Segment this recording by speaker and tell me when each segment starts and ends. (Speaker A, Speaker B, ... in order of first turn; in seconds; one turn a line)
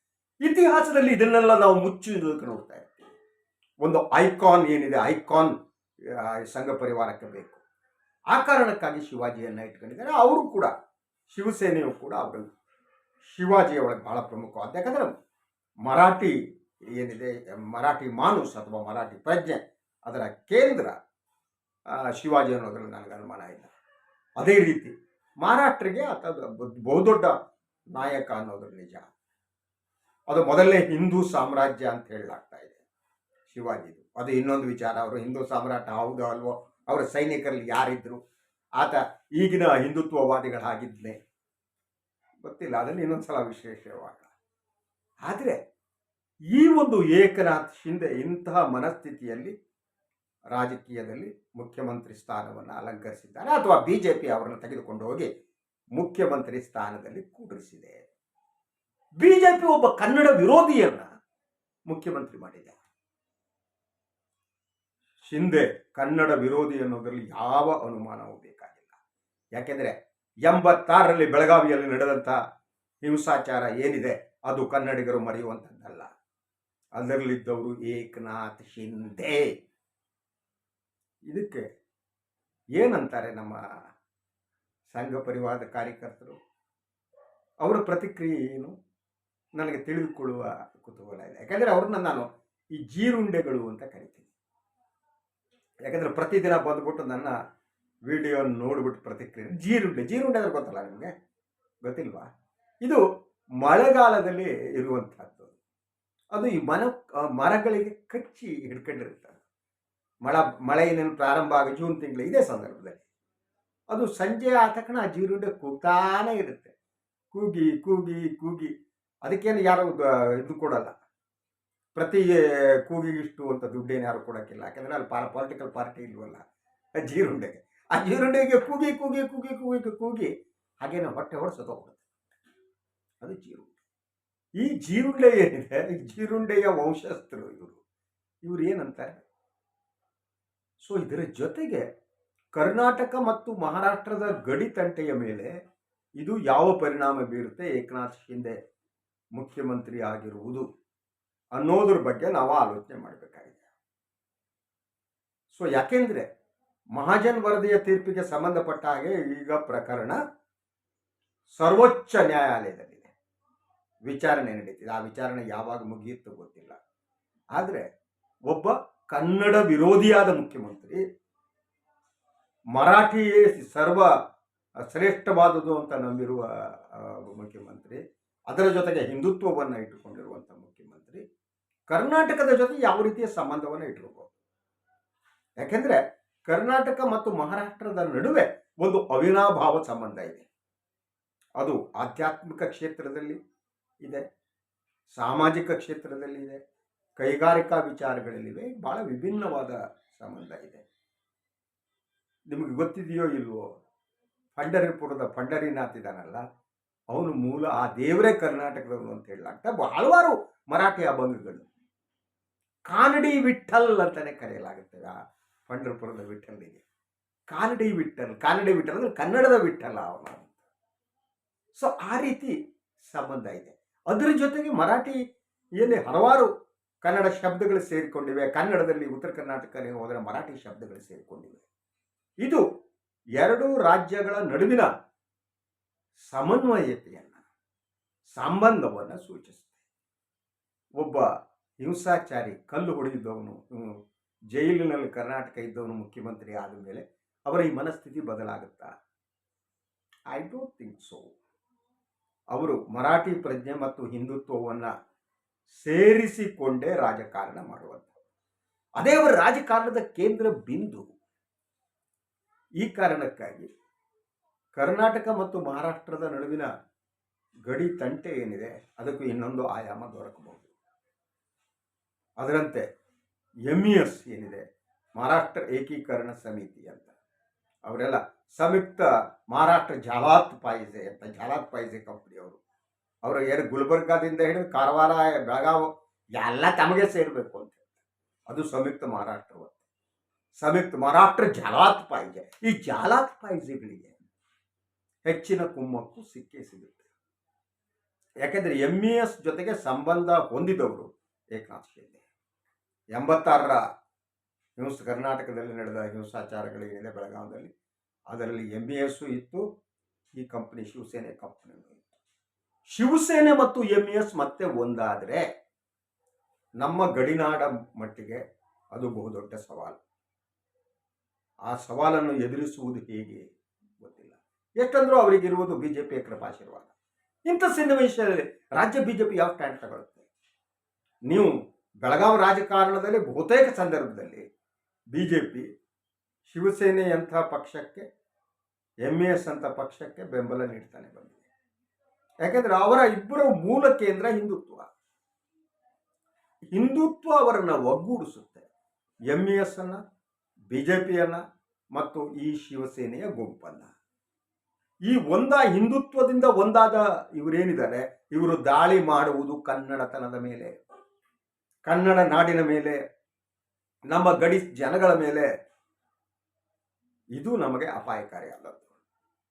Speaker A: 0.4-3.1
Speaker A: 3.8-5.5
Speaker A: 6.1-7.6
Speaker A: 8.3-10.7
Speaker A: 11.3-12.5
Speaker A: 13.3-15.1
Speaker A: 15.8-16.3
Speaker A: 16.9-20.9
Speaker A: 22.1-23.7
Speaker A: 24.4-27.3
Speaker A: 27.9-29.1
Speaker A: 30.3-32.8
Speaker A: 33.5-38.2
Speaker A: 38.8-41.2
Speaker A: 42.4-44.3
Speaker A: 45.2-45.6
Speaker A: 46.5-49.5
Speaker A: 50.5-55.3
Speaker A: 56.0-58.0
Speaker A: 59.2-61.1
Speaker A: 61.9-62.8
Speaker A: 65.2-68.9
Speaker A: 69.5-69.9
Speaker A: 70.5-72.4
Speaker A: 73.0-76.1
Speaker A: 77.0-79.5
Speaker A: 81.3-81.6
Speaker A: 82.8-83.6
Speaker A: 84.9-86.4
Speaker A: 87.6-88.8
Speaker A: 89.5-94.3
Speaker A: 95.8-97.3
Speaker A: 98.1-101.1
Speaker A: 101.8-102.3
Speaker A: 103.6-105.5
Speaker A: 106.3-109.4
Speaker A: 110.2-113.0
Speaker A: 113.9-116.7
Speaker A: 117.3-118.7
Speaker A: 119.2-120.9
Speaker A: 122.0-126.4
Speaker A: 127.0-132.3
Speaker A: 133.2-133.8
Speaker A: 134.6-137.8
Speaker A: 138.4-139.1
Speaker A: 140.8-141.8
Speaker A: 142.5-145.5
Speaker A: 146.2-148.6
Speaker A: 149.3-150.7
Speaker A: 151.6-153.6
Speaker A: 155.5-156.2
Speaker A: 156.9-160.2
Speaker A: 161.6-163.1
Speaker A: 164.1-166.8
Speaker A: 167.5-167.8
Speaker A: 168.5-171.0
Speaker A: 172.7-174.1
Speaker A: 174.9-181.2
Speaker A: 181.9-184.3
Speaker A: 185.6-190.4
Speaker A: 191.6-193.4
Speaker A: 195.1-196.6
Speaker A: 197.2-200.8
Speaker A: 202.5-203.7
Speaker A: 204.6-206.4
Speaker A: 207.1-211.7
Speaker A: 212.9-215.1
Speaker A: 215.7-216.8
Speaker A: 217.5-220.5
Speaker A: 221.7-225.2
Speaker A: 225.8-226.5
Speaker A: 227.0-231.6
Speaker A: 233.4-234.9
Speaker A: 236.3-237.4
Speaker A: 238.3-239.8
Speaker A: 241.0-241.3
Speaker A: 241.8-244.0
Speaker A: 244.5-248.9
Speaker A: 250.3-251.3
Speaker A: 252.5-254.9
Speaker A: 255.8-258.1
Speaker A: 259.0-261.1
Speaker A: 262.8-263.7
Speaker A: 264.8-266.7
Speaker A: 267.7-270.7
Speaker A: 272.4-272.8
Speaker A: 273.7-274.6
Speaker A: 275.1-277.1
Speaker A: 277.8-282.6
Speaker A: 283.2-285.9
Speaker A: 286.4-287.9
Speaker A: 288.5-289.8
Speaker A: 290.6-294.2
Speaker A: 295.2-297.1
Speaker A: 298.4-302.2
Speaker A: 303.1-303.8
Speaker A: 304.8-307.7
Speaker A: 308.3-309.6
Speaker A: 310.3-312.1
Speaker A: 312.9-315.4
Speaker A: 316.8-318.4
Speaker A: 318.9-320.0
Speaker A: 321.7-323.5
Speaker A: 324.0-326.9
Speaker A: 327.4-330.3
Speaker A: 331.3-334.4
Speaker A: 335.1-335.6
Speaker A: 336.4-338.1
Speaker A: 339.0-341.4
Speaker A: 342.4-344.9
Speaker A: 346.7-348.7
Speaker A: 349.3-350.0
Speaker A: 350.7-351.4
Speaker A: 351.9-353.9
Speaker A: 355.1-360.8
Speaker A: 361.9-363.0
Speaker A: 364.1-365.5
Speaker A: 367.3-368.9